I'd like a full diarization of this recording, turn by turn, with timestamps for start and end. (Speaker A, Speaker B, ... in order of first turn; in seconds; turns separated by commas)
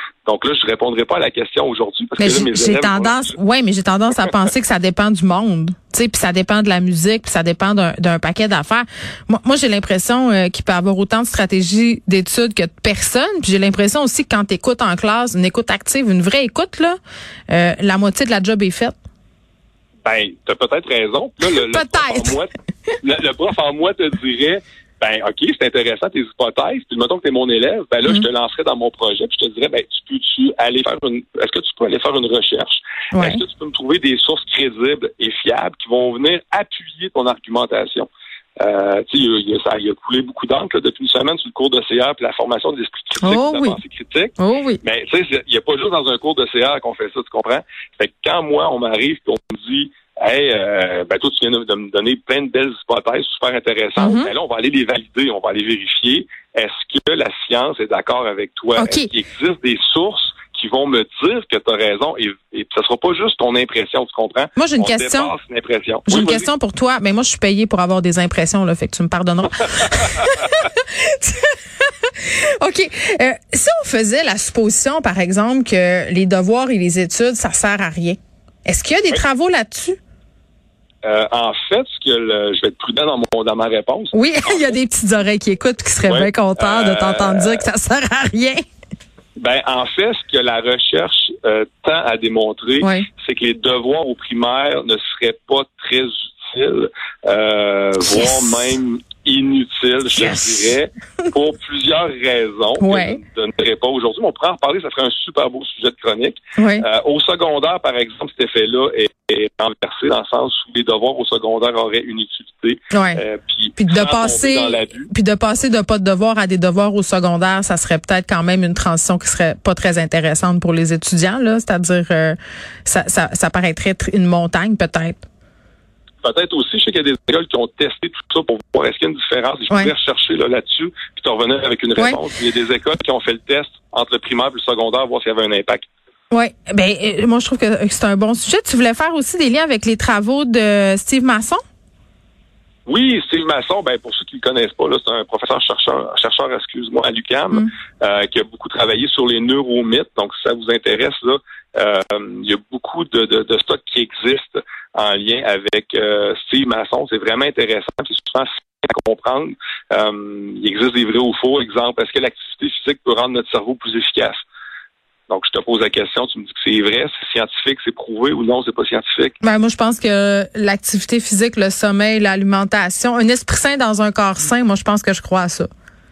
Speaker A: 0.3-3.4, Speaker B: 2.2-17.0, Speaker B: 17.5-19.0, Speaker A: 20.0-22.5, Speaker B: 21.4-22.4, Speaker A: 23.0-38.1, Speaker B: 33.1-33.4, Speaker A: 38.6-66.5, Speaker B: 43.2-43.8, Speaker B: 44.4-44.8, Speaker B: 54.0-54.3, Speaker B: 58.8-59.1, Speaker B: 64.6-65.3, Speaker B: 66.1-80.0, Speaker A: 81.0-84.7, Speaker B: 84.1-88.6, Speaker A: 86.0-87.6, Speaker A: 89.4-115.1, Speaker B: 92.8-93.1, Speaker B: 100.1-100.7, Speaker B: 102.8-103.2, Speaker B: 106.6-106.9, Speaker B: 112.9-113.2, Speaker B: 113.8-125.2, Speaker A: 126.2-135.9, Speaker B: 136.3-141.6, Speaker A: 142.9-164.4, Speaker A: 165.3-169.4, Speaker B: 169.4-175.7